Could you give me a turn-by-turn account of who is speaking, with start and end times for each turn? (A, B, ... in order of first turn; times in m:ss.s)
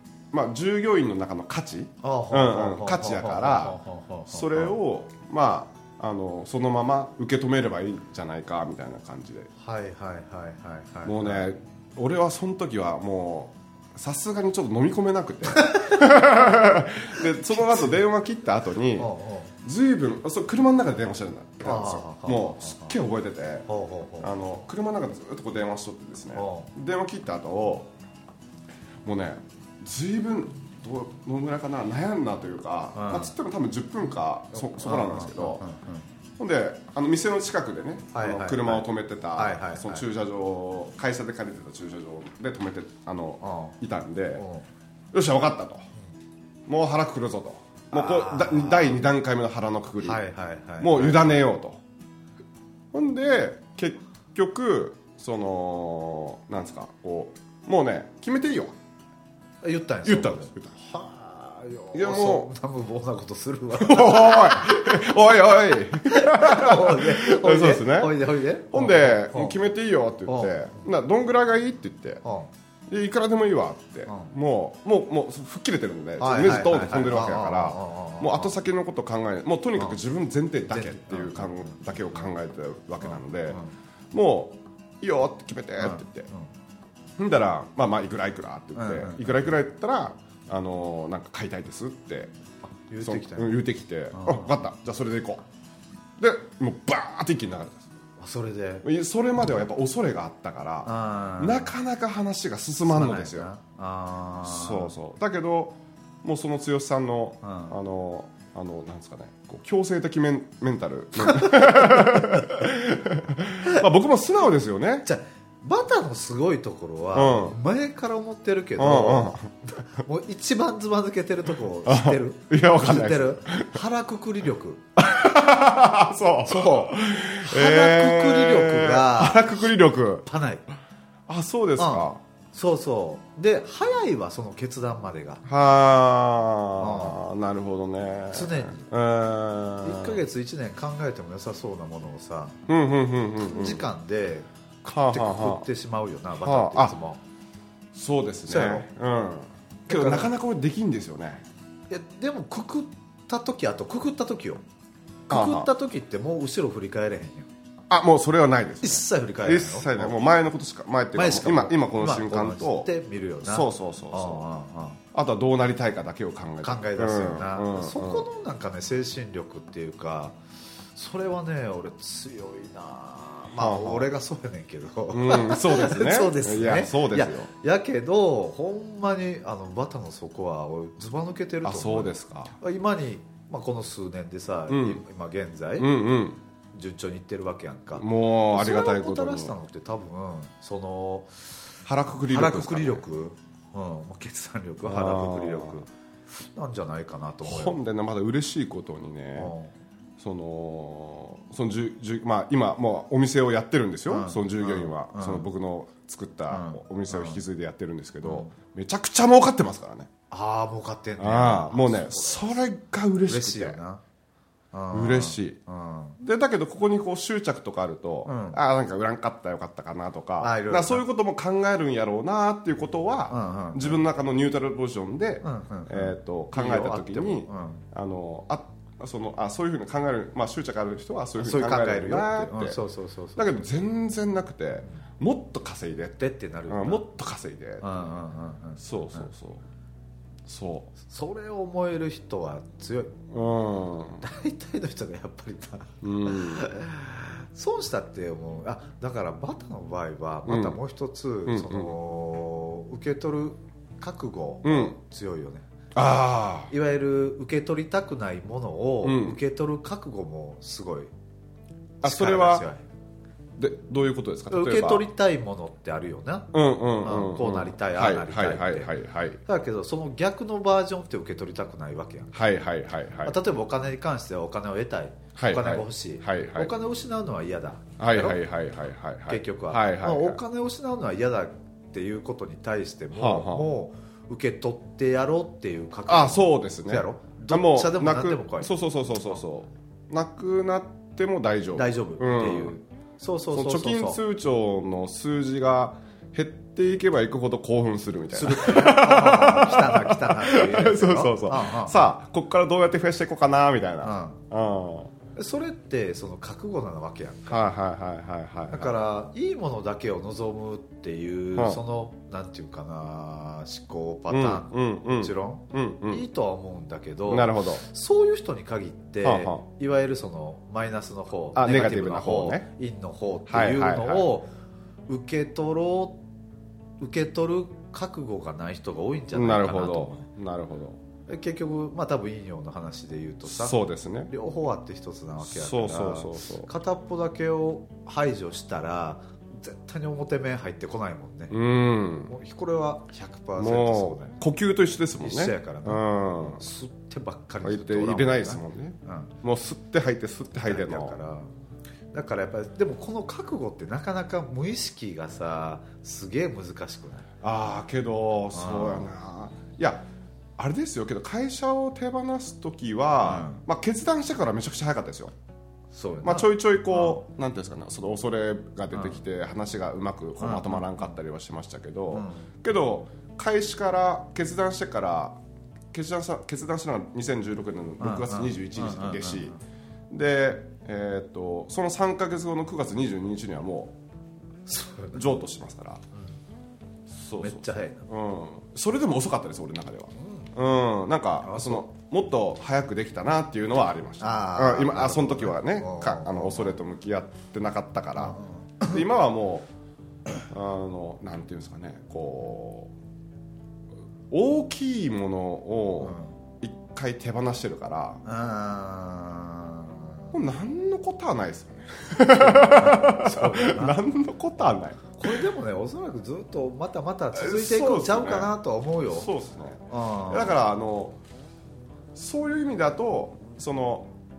0:00.3-0:09.5 A
0:02.0-0:04.7 B
0:09.6-0:11.5 B
0:11.0-0:19.1 A
0:19.0-0:19.5 B
0:19.6-0:23.7 A
0:21.6-0:23.0 B
0:23.7-0:24.3 B
0:24.2-0:27.9 A
0:26.4-0:26.7 B
0:29.0-0:35.6 A
0:33.0-0:33.3 B
0:34.6-0:36.0 B
0:36.4-0:44.4 A
0:38.1-0:40.0 B
0:43.4-0:43.8 B
0:44.4-0:44.6 B
0:45.1-0:45.9 A
0:46.7-0:50.2 A
0:47.9-0:49.0 B
0:50.0-0:51.4 B
0:50.8-0:51.8 A
0:52.9-0:58.8 A
0:59.6-1:05.0 B
1:00.0-1:00.7 A
1:01.9-1:02.5 A
1:03.8-1:12.2 A
1:06.0-1:09.6 B
1:10.3-1:10.6 B
1:12.2-1:12.5 B
1:12.9-1:23.6 A
1:16.2-1:18.5 B
1:20.7-1:21.8 B
1:23.1-1:23.7 B
1:24.1-1:26.3 A
1:25.8-1:26.5 B
1:27.2-1:32.3 A
1:28.8-1:29.3 B
1:32.9-1:33.6 B
1:33.0-1:35.4 A
1:34.1-1:34.5 B
1:36.2-1:37.8 A
1:38.2-1:38.9 B
1:38.8-1:43.5 A
1:40.8-1:41.8 B
1:42.9-1:44.9 B
1:44.4-1:55.1 A
1:47.4-1:47.8 B
1:51.3-1:52.5 B
1:55.0-2:04.8 B
1:57.1-1:57.6 A
1:58.8-1:59.5 A
2:01.8-2:03.8 A
2:05.0-2:10.3 A
2:06.4-2:09.6 B
2:10.3-2:10.7 B
2:11.3-2:12.2 A
2:11.8-2:15.4 B
2:15.4-2:20.2 A
2:16.8-2:17.2 B
2:18.3-2:18.8 B
2:19.8-2:22.7 B
2:22.7-2:23.9 A
2:23.4-2:27.2 B
2:24.8-2:25.7 A
2:26.4-2:26.9 A
2:27.9-2:31.4 A
2:28.5-2:28.9 B
2:29.9-2:30.3 B
2:31.9-2:34.6 B
2:35.3-2:35.7 A
2:35.3-2:37.5 B
2:37.9-2:42.9 A
2:38.8-2:40.2 B
2:41.2-2:45.0 B
2:43.4-2:44.5 A
2:45.1-2:48.3 A
2:46.6-2:50.4 B
2:51.0-3:05.9 B
2:53.6-2:54.1 A
2:55.1-2:57.5 A
3:01.6-3:02.5 A
3:04.7-3:05.0 A
3:05.8-3:06.4 A
3:06.7-3:11.4 B
3:08.0-3:09.5 A
3:11.8-3:13.0 A
3:12.3-3:17.8 B
3:14.8-3:15.8 A
3:17.4-3:19.5 A
3:19.4-3:19.7 B
3:20.2-3:30.1 A
3:24.1-3:25.5 B
3:26.5-3:27.4 B
3:28.2-3:28.5 B
3:30.3-3:32.6 B
3:31.2-3:33.8 A
3:33.3-3:34.0 B
3:34.7-3:36.2 B
3:34.9-3:35.6 A
3:36.2-3:52.8 A
3:38.3-3:38.6 B
3:40.4-3:41.0 B
3:43.3-3:44.0 B
3:45.4-3:47.8 B
3:51.4-3:53.6 B
3:53.4-3:57.8 A
3:56.2-3:57.0 B
3:57.8-3:59.3 B
3:58.8-3:59.6 A
4:00.5-4:00.9 A
4:01.0-4:03.2 B
4:03.3-4:04.2 A
4:04.2-4:15.7 B
4:06.0-4:06.7 A
4:10.5-4:10.8 A
4:11.5-4:12.0 A
4:14.6-4:15.0 A
4:15.9-4:16.7 A
4:16.7-4:21.1 B
4:19.0-4:19.4 A
4:22.0-4:22.8 B
4:22.0-4:22.7 A
4:23.6-4:25.1 A
4:24.5-4:28.9 B
4:26.5-4:29.4 A
4:29.4-4:32.4 B
4:32.3-4:33.4 A
4:33.2-4:38.4 B
4:35.4-4:36.7 A
4:38.0-4:40.4 A
4:39.3-4:48.7 B
4:43.1-4:43.7 A
4:46.1-4:52.8 A
4:51.8-4:54.2 B
4:53.5-5:05.1 A
4:58.3-5:02.1 B
5:04.0-5:04.4 B
5:05.4-5:07.7 B
5:07.5-5:09.0 A
5:08.7-5:24.5 B
5:11.6-5:11.8 A
5:14.3-5:16.2 A
5:17.3-5:17.8 A
5:19.2-5:19.6 A
5:21.6-5:22.7 A
5:23.5-5:24.3 A
5:25.1-5:26.2 B
5:27.0-5:30.2 B
5:29.3-5:31.0 A
5:31.3-5:33.8 B
5:33.4-5:34.3 A
5:34.3-5:41.6 B
5:35.4-5:36.7 A
5:41.5-5:42.3 A
5:42.3-5:44.4 B
5:43.6-5:46.6 A
5:45.2-5:49.4 B
5:47.6-5:51.2 A
5:50.6-5:51.5 B
5:52.1-5:57.3 B
5:57.4-6:00.0 A
5:58.5-5:59.1 B
6:00.6-6:05.3 A
6:03.2-6:03.6 B
6:05.9-6:07.2 B
6:06.2-6:15.4 A
6:10.4-6:11.0 B
6:12.1-6:12.5 B
6:15.9-6:19.6 A
6:18.0-6:19.6 B
6:20.1-6:24.0 A
6:24.7-6:25.2 B
6:25.1-6:26.0 A
6:27.1-6:39.7 A
6:27.4-6:28.1 B
6:30.2-6:30.5 B
6:31.4-6:31.9 B
6:34.2-6:36.8 B
6:38.2-6:39.0 B
6:40.5-6:42.9 A
6:44.3-6:48.2 A
6:46.0-6:46.3 B
6:48.2-6:50.3 B
6:50.3-6:55.4 A
6:52.4-6:54.0 B
6:55.2-6:59.3 B
6:57.3-6:58.5 A
6:59.1-7:01.2 A
6:59.9-7:00.6 B
7:02.2-7:04.1 A